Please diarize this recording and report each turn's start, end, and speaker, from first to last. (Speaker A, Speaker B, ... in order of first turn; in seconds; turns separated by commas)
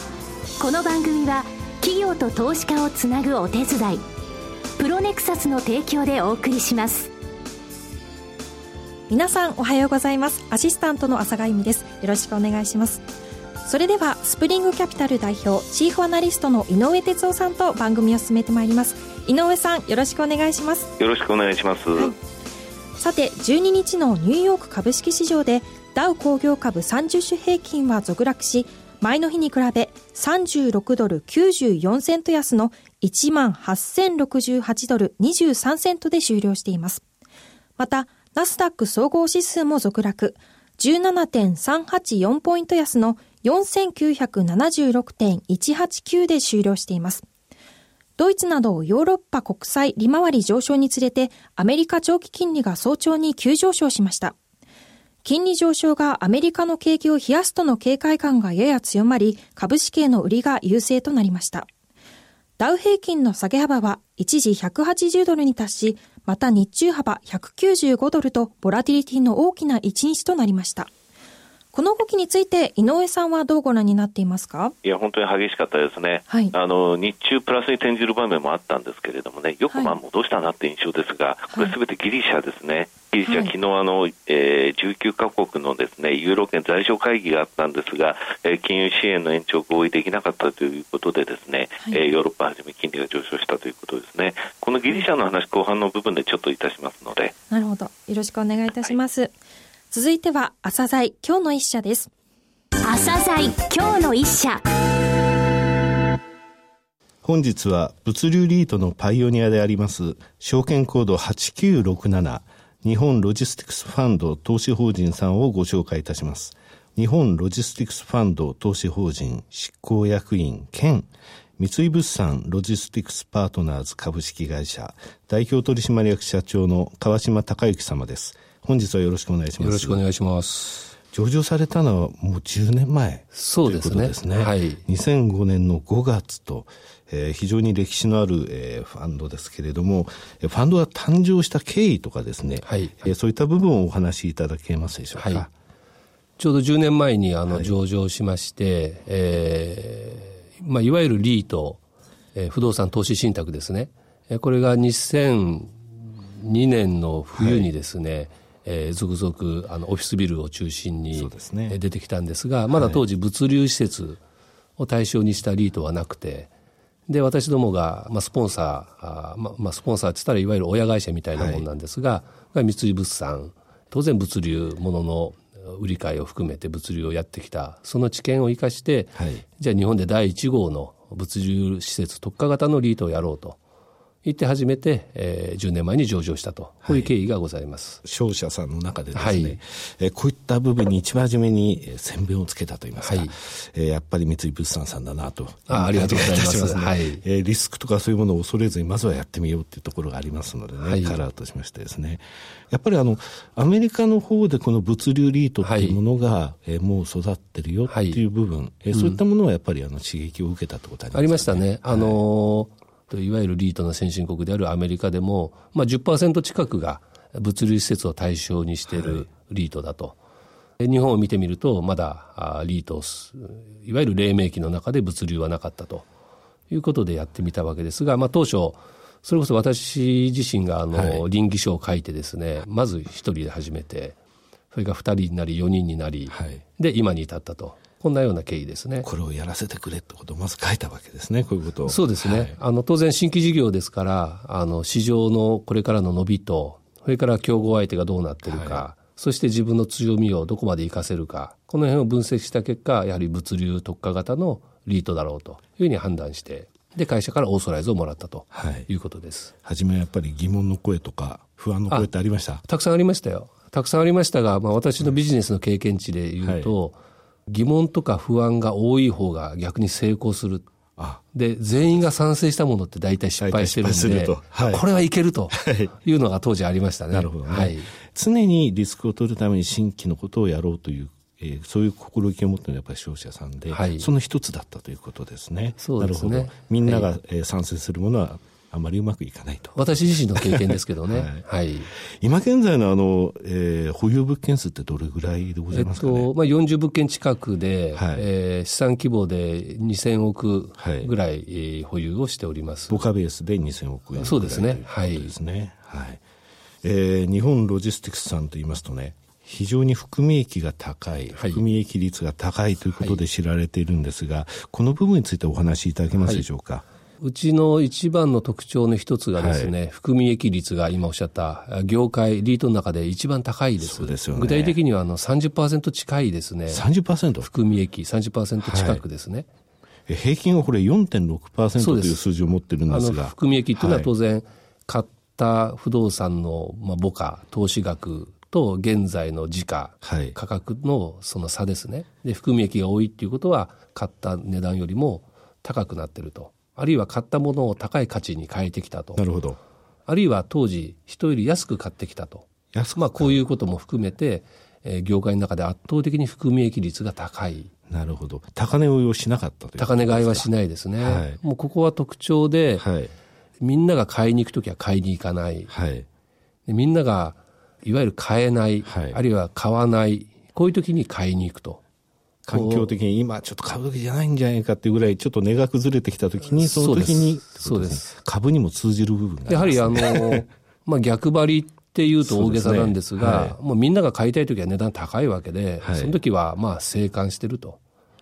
Speaker A: 0.6-4.0, Speaker A: 4.8-7.1, Speaker B: 9.1-13.1, Speaker B: 13.6-20.9, Speaker C: 21.0-22.1, Speaker B: 23.0-37.0, Speaker B: 37.8-47.2, Speaker B: 48.2-54.3, Speaker B: 55.2-61.7, Speaker B: 62.6-70.9, Speaker B: 71.7-74.8, Speaker C: 74.8-97.3, Speaker B: 76.3-76.5, Speaker B: 83.3-83.5, Speaker B: 97.5-99.3, Speaker B: 99.9-102.1, Speaker A: 102.8-104.6, Speaker D: 107.2-130.0, Speaker E: 129.6-130.9, Speaker D: 131.1-145.5, Speaker E: 133.3-134.8, Speaker E: 142.6-143.1, Speaker E: 145.1-145.5, Speaker E: 146.4-151.8, Speaker D: 147.5-147.7, Speaker E: 152.3-164.2, Speaker D: 157.3-157.7, Speaker D: 161.1-161.8, Speaker D: 162.7-163.0, Speaker E: 164.8-166.5, Speaker E: 167.1-183.6, Speaker D: 171.3-171.7, Speaker D: 179.1-179.4, Speaker E: 184.2-188.0, Speaker D: 186.8-187.1, Speaker D: 188.0-212.2, Speaker E: 189.1-189.6, Speaker E: 193.0-193.3, Speaker E: 195.7-197.2, Speaker E: 200.8-201.2, Speaker E: 205.6-206.0, Speaker E: 207.9-208.2, Speaker E: 208.9-209.2, Speaker E: 211.1-220.2, Speaker D: 218.9-219.2, Speaker E: 220.8-226.1, Speaker E: 226.7-234.2, Speaker D: 230.9-231.2, Speaker E: 234.7-239.1, Speaker D: 236.3-236.6, Speaker D: 239.0-242.6, Speaker E: 241.8-259.5, Speaker D: 248.5-248.9, Speaker D: 258.5-258.9, Speaker D: 259.6-262.6, Speaker E: 261.9-270.7, Speaker D: 266.4-266.7, Speaker D: 271.0-271.2, Speaker E: 271.3-277.9, Speaker D: 273.4-274.9, Speaker D: 275.5-275.9, Speaker D: 277.1-296.3, Speaker E: 283.7-284.1, Speaker E: 285.8-287.1, Speaker E: 289.8-291.9, Speaker E: 295.7-303.1, Speaker D: 297.9-298.3, Speaker D: 300.8-301.1, Speaker D: 302.9-306.2, Speaker E: 304.1-305.3, Speaker D: 306.8-316.9, Speaker E: 311.4-311.6, Speaker E: 313.0-313.2, Speaker E: 316.1-316.5, Speaker E: 317.2-326.9, Speaker D: 319.4-319.7, Speaker D: 323.8-324.8, Speaker D: 326.7-327.5, Speaker E: 327.4-329.5, Speaker D: 328.6-329.0, Speaker D: 330.1-334.1, Speaker E: 331.8-332.2, Speaker E: 332.9-349.2, Speaker D: 340.0-340.4, Speaker D: 349.2-349.6, Speaker E: 350.1-357.7, Speaker D: 352.7-353.4, Speaker D: 357.9-361.4, Speaker E: 359.8-362.9, Speaker D: 362.8-363.1, Speaker E: 363.6-365.7, Speaker D: 365.7-366.1, Speaker E: 366.7-371.8, Speaker D: 368.9-369.2, Speaker D: 372.4-380.4, Speaker E: 372.5-372.9, Speaker E: 376.5-378.1, Speaker E: 379.5-387.8, Speaker D: 382.2-383.6, Speaker D: 385.8-386.2